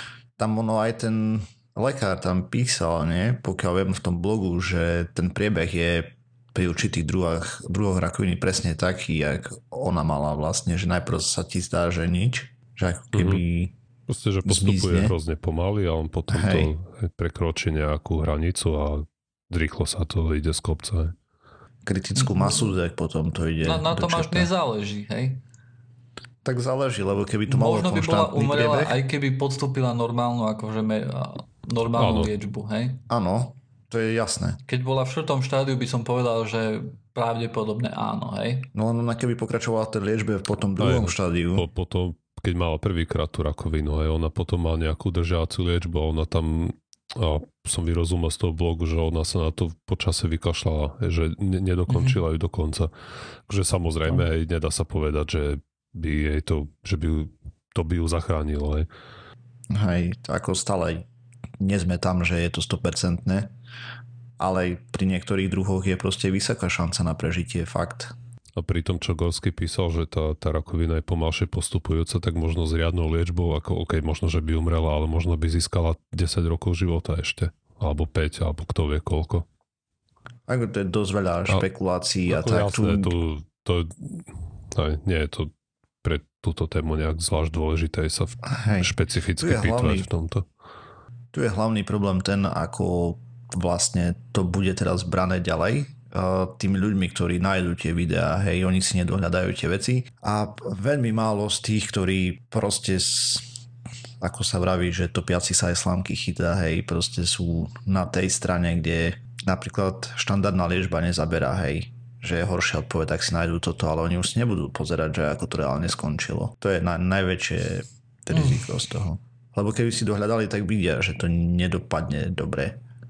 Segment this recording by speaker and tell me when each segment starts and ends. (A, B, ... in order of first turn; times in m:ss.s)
0:00.4-0:13.7 A
0:13.1-0:13.4 B
0:14.1-0:21.2 B
0:14.4-0:15.2 A
0:16.3-0:16.7 A
0:21.8-0:24.5 A
0:22.2-0:22.8 C
0:23.6-0:25.4 C
0:26.4-0:29.0 A
0:27.5-0:33.0 C
0:32.0-0:32.3 B
0:33.1-0:34.6 A
0:34.7-0:38.7 C
0:38.8-0:41.6 A
0:40.8-0:52.9 B
0:51.9-0:52.2 C
0:53.5-0:58.9 B
0:59.7-1:01.1 A
1:01.6-1:03.5 A
1:04.4-1:08.1 A
1:08.6-1:19.5 B
1:20.5-1:23.1 A
1:22.3-1:25.5 B
1:26.0-1:30.4 B
1:28.5-1:30.1 A
1:31.3-1:43.5 A
1:44.2-2:02.8 A
1:58.3-1:58.6 C